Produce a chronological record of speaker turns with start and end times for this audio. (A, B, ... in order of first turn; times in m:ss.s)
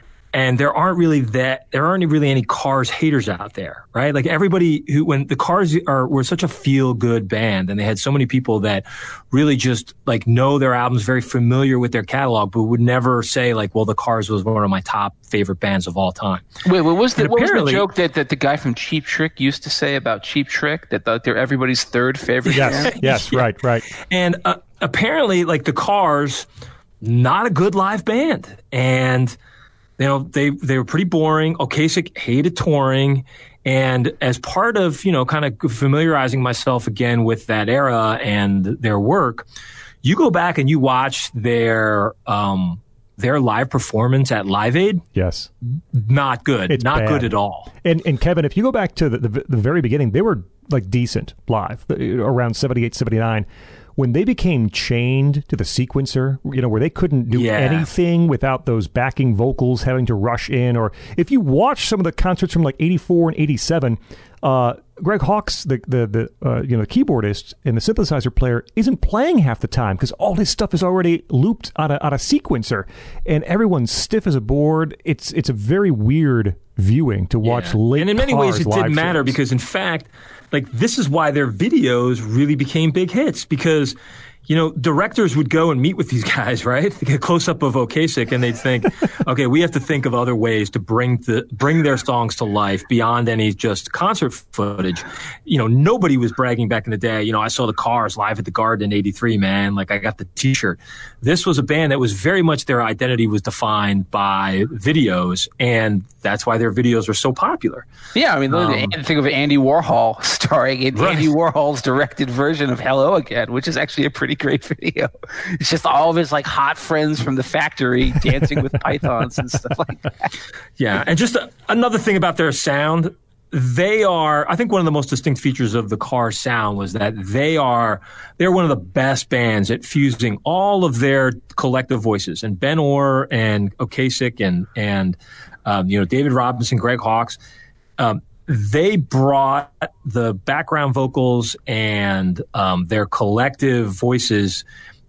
0:00.3-0:16.5 A
0:16.6-0:22.9 B
0:17.2-0:17.9 A
0:22.5-0:23.9 C
0:22.5-0:26.5 A
0:27.0-0:29.4 A
0:30.0-0:39.4 A
0:40.0-0:45.0 A
0:45.1-0:45.5 C
0:45.9-0:47.7 A
0:46.7-0:47.3 C
0:47.8-0:53.5 C
0:54.0-1:19.4 C
0:57.3-0:57.9 A
1:17.4-1:24.0 A
1:24.5-1:47.9 A
1:48.1-2:00.3 B
1:51.0-1:51.2 A
2:00.8-2:17.4 A
2:18.0-2:24.6 A